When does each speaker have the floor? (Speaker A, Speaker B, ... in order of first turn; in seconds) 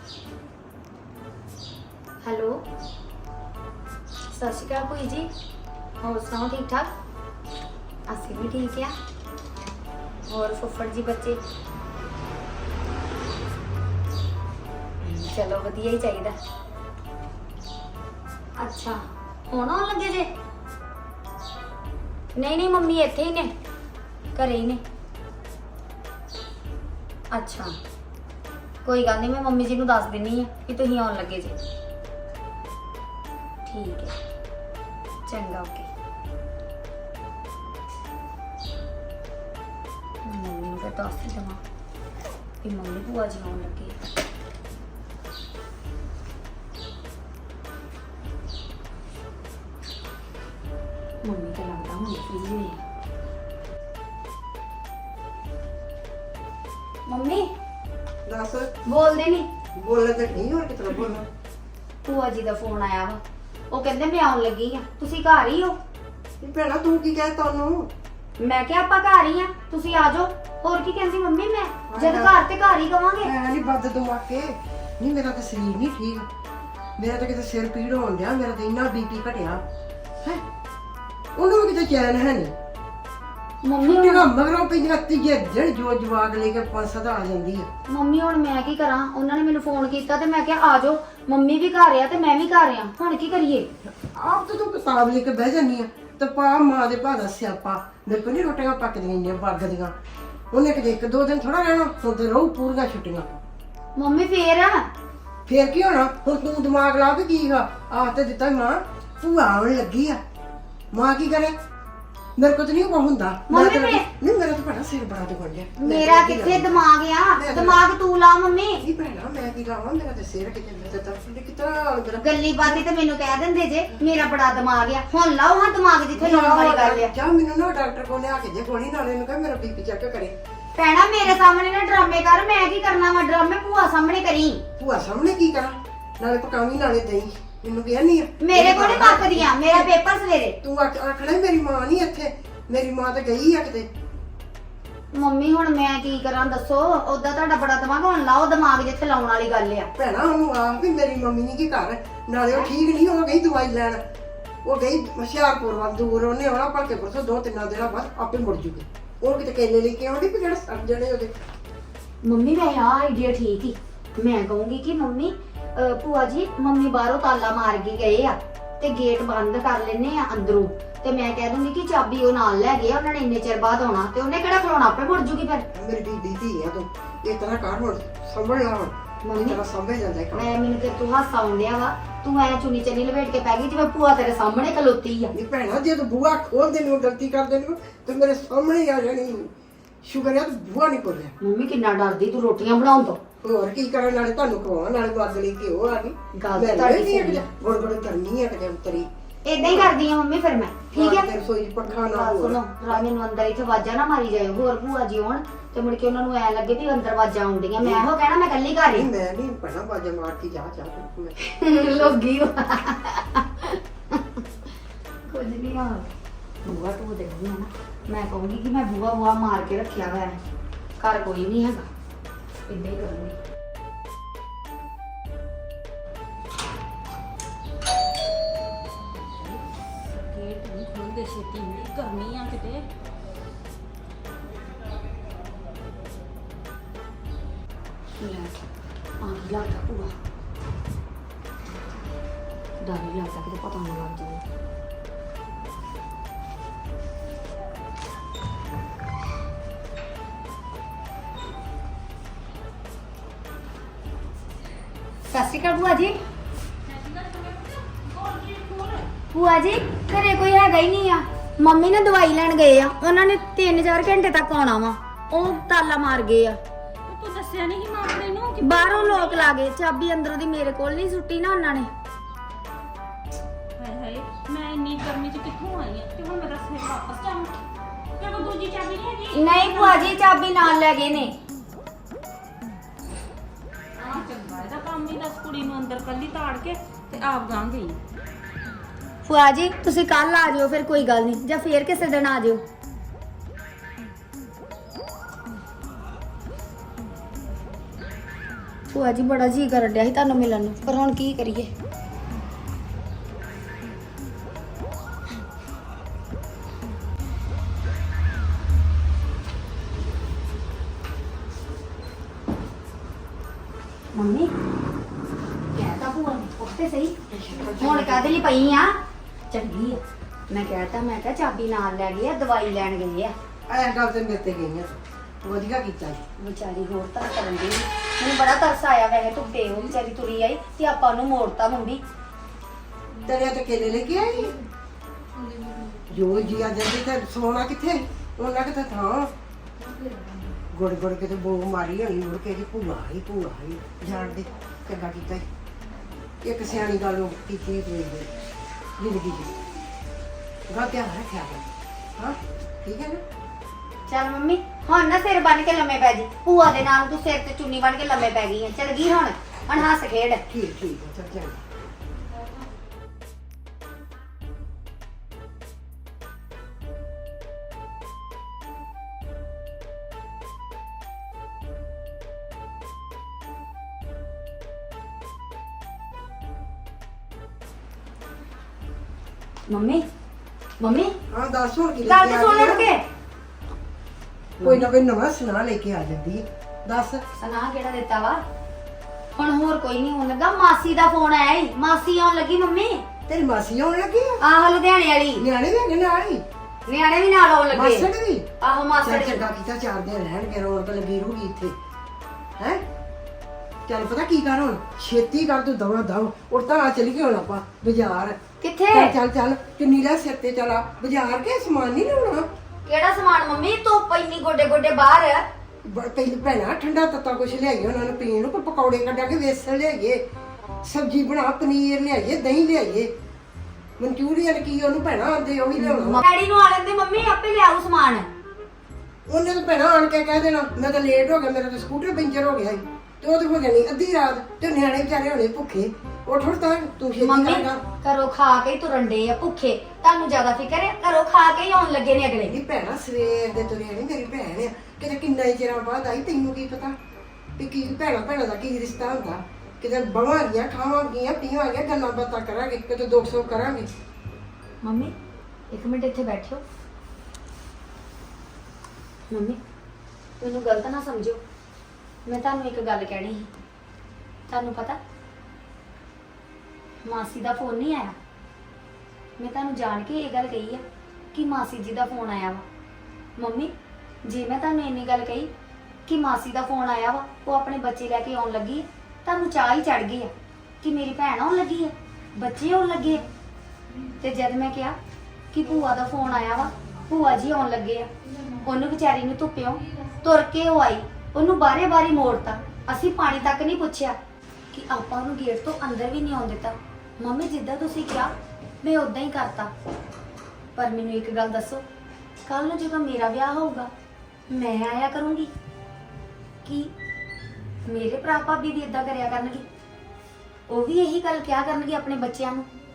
Speaker A: 2.2-2.6, 4.3-5.3, 6.0-6.9, 8.1-8.9, 10.3-11.4, 15.0-16.4, 18.6-20.3, 22.4-23.5, 24.4-24.8, 27.3-27.8, 28.9-31.6, 33.7-34.1, 35.3-35.9, 40.2-41.6, 42.6-44.0, 51.2-52.8, 57.1-57.5, 58.9-59.5, 62.0-65.8, 68.4-73.3, 83.6-84.3, 87.9-93.7, 104.0-104.9, 113.5-114.1, 115.8-118.8, 122.2-127.1, 130.8-134.6, 138.4-140.6, 145.1-149.9, 162.2-175.7, 179.2-179.6, 180.3-185.3, 191.4-193.2, 196.3-197.5, 199.4-201.3, 201.9-209.1, 211.4-214.4, 215.3-216.1, 216.6-220.4, 221.0-221.9, 222.7-223.4, 238.2-238.7, 239.2-240.1, 242.8-244.4, 255.3-256.2, 259.3-266.6, 268.6-271.9, 279.3-281.4, 289.3-292.6, 298.9-301.7, 314.1-314.5, 315.7-317.1, 317.8-319.0, 319.5-323.3, 326.4-332.0, 354.1-360.4, 379.7-380.1, 380.8-381.1, 382.1-383.1, 384.6-384.9, 387.4-388.4, 389.4-393.1, 394.4-395.4, 396.9-398.1, 398.6-399.4, 408.6-409.2, 412.9-415.4, 425.8-428.3, 437.2-442.6, 454.8-455.1, 455.7-456.6, 459.3-459.6, 460.4-461.4, 462.3-463.5, 464.5-465.0, 467.1-468.2, 469.4-472.6, 473.4-473.7, 474.2-475.5, 476.1-483.2, 484.2-485.0, 485.5-494.2, 494.7-499.7, 500.8-501.9, 502.5-503.9, 504.5-505.5, 506.6-506.9, 507.9-509.6, 510.7-512.7
Speaker B: 58.3-58.7, 59.8-61.3, 66.4-67.9, 71.9-72.4, 73.2-76.3, 77.0-79.7, 81.4-82.5, 83.8-87.7, 94.0-99.9, 100.5-103.3, 105.5-110.2, 110.9-111.6, 112.4-116.8, 117.3-117.8, 118.8-122.8, 126.2-130.3, 134.8-139.9, 140.6-143.9, 150.0-154.0, 154.7-161.3, 175.7-180.5, 185.3-189.5, 190.0-191.3, 193.4-199.1, 199.6-199.9, 200.9-203.1, 207.8-208.1, 208.9-211.4, 317.3-318.6, 323.7-326.2, 333.2-334.6, 336.1-339.3, 340.7-345.5, 346.4-348.3, 349.0-349.5, 350.7-351.7, 352.2-353.2, 360.5-361.6, 381.3-382.9, 384.6-387.2, 393.3-394.4, 395.4-396.4, 397.7-398.5, 399.0-401.8, 403.9-408.4, 408.9-412.5, 415.9-420.2, 420.8-423.1, 424.0-426.2, 429.3-437.8, 442.5-446.9, 447.6-453.9
Speaker C: 229.1-232.9, 256.9-259.1, 267.1-269.5, 273.8-277.6, 278.2-280.1, 284.0-288.0